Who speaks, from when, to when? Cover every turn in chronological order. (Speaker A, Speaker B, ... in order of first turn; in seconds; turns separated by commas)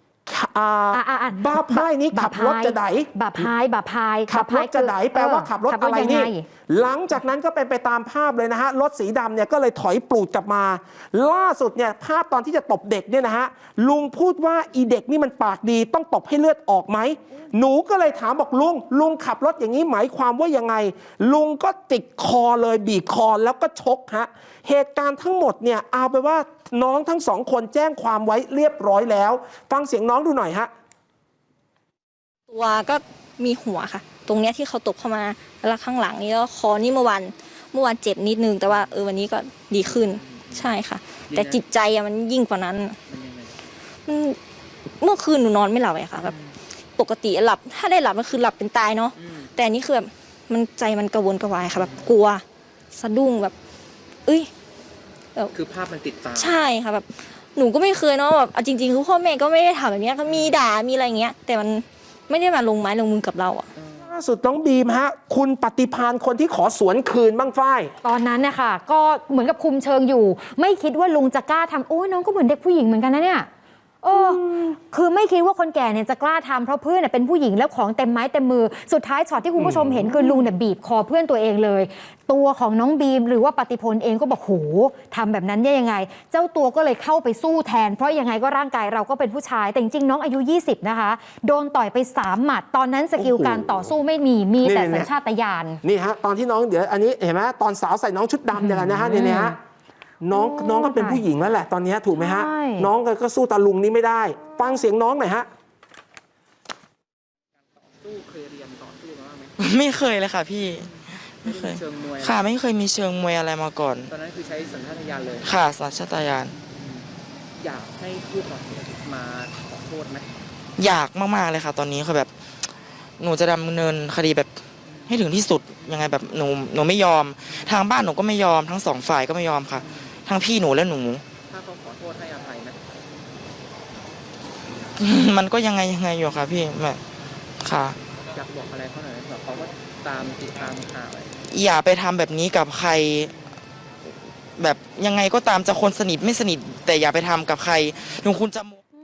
Speaker A: 0.2-3.5, Speaker B: 0.9-6.5, Speaker A: 4.3-30.7, Speaker C: 32.5-43.0, Speaker D: 38.6-38.9, Speaker D: 39.8-40.7, Speaker D: 41.3-41.6, Speaker D: 43.1-43.5, Speaker C: 44.0-44.4, Speaker C: 45.0-46.3, Speaker D: 46.1-46.5, Speaker C: 47.0-53.5, Speaker D: 49.2-49.4, Speaker D: 51.7-52.1, Speaker C: 54.2-54.5, Speaker D: 55.5-56.6, Speaker C: 56.3-63.7, Speaker A: 64.0-67.9, Speaker B: 68.0-73.5, Speaker B: 74.0-95.8, Speaker A: 74.1-74.7, Speaker A: 79.6-80.5, Speaker A: 93.2-93.9, Speaker A: 94.6-95.1, Speaker A: 95.8-99.6, Speaker B: 98.5-99.5, Speaker A: 100.2-105.5, Speaker B: 100.3-101.2, Speaker B: 102.1-102.9, Speaker D: 107.8-109.5, Speaker E: 109.6-114.1, Speaker D: 110.8-112.4, Speaker D: 114.1-115.5, Speaker E: 115.4-116.5, Speaker D: 116.7-120.3, Speaker E: 120.8-122.3, Speaker E: 123.2-131.2, Speaker D: 129.8-130.1, Speaker D: 131.5-133.0, Speaker E: 135.0-137.0, Speaker E: 137.6-138.0, Speaker D: 138.3-141.3, Speaker E: 141.5-143.3, Speaker E: 144.1-148.8